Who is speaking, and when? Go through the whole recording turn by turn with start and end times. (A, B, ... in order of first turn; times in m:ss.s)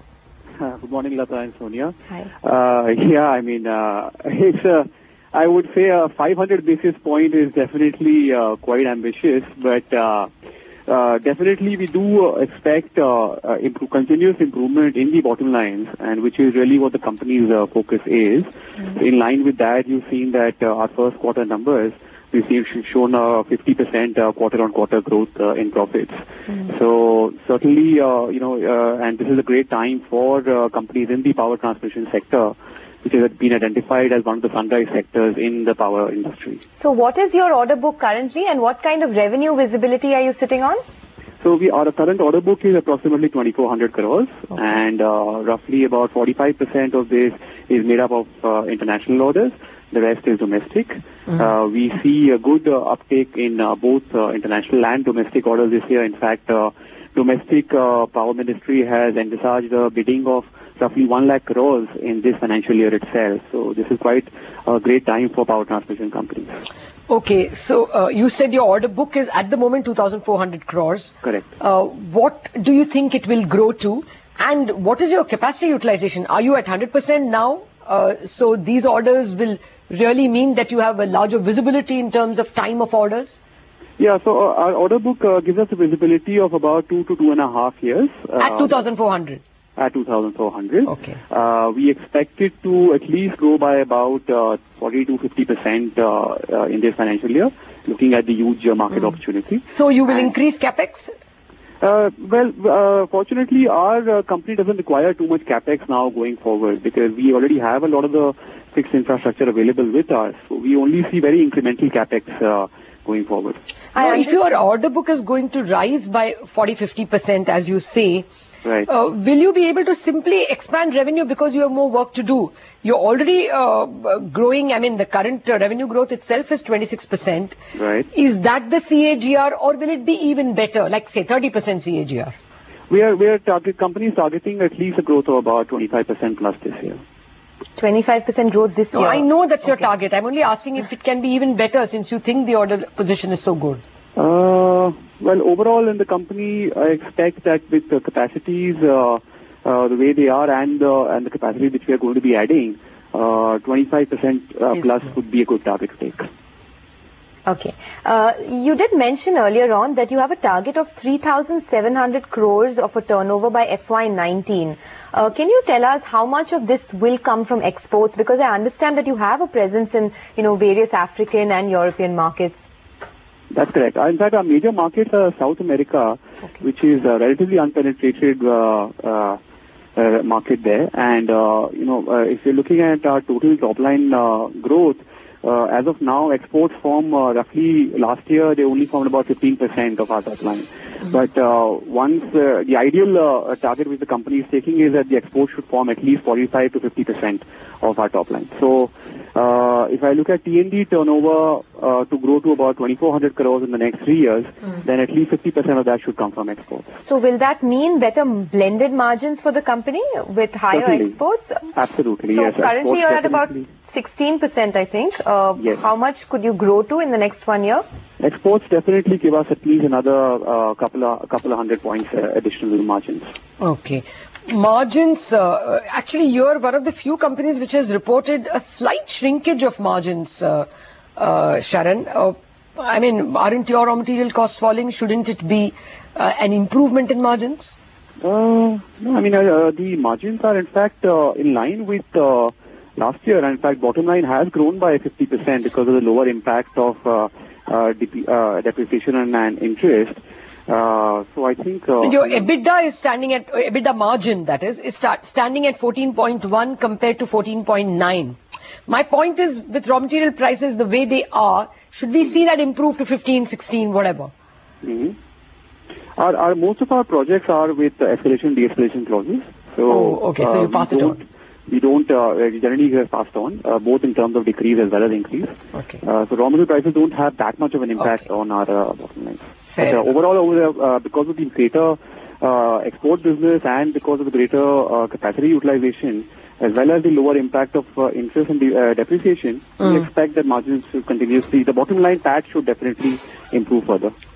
0:00.6-0:10.3 A
0:10.9-0:36.6 A
0:36.8-0:40.8 B
0:41.4-1:06.6 A
1:07.1-1:23.4 C
1:24.0-1:28.8 A
1:28.4-1:29.4 C
1:29.8-1:40.3 A
1:30.9-1:31.2 C
1:39.7-1:41.1 C
1:41.8-1:53.6 A
1:53.9-1:54.4 B
1:54.0-1:58.3 C
1:58.9-2:07.6 C
2:07.8-2:08.1 A
2:08.1-2:12.3 C
2:12.9-2:17.0 A
2:17.8-2:19.3 B
2:18.9-2:23.8 C
2:24.2-2:36.3 A
2:37.5-2:52.7 B
2:53.5-2:59.4 A
3:00.0-3:27.0 A
3:27.0-3:31.7 B
3:30.7-3:31.2 A
3:31.7-3:33.7 A
3:32.3-3:37.8 B
3:38.2-3:43.3 A
3:43.6-3:57.8 C
3:58.2-4:12.5 A
4:12.0-4:24.3 C
4:24.8-4:25.2 A
4:26.2-4:54.1 A
4:29.9-4:31.2 C
4:39.7-4:40.0 C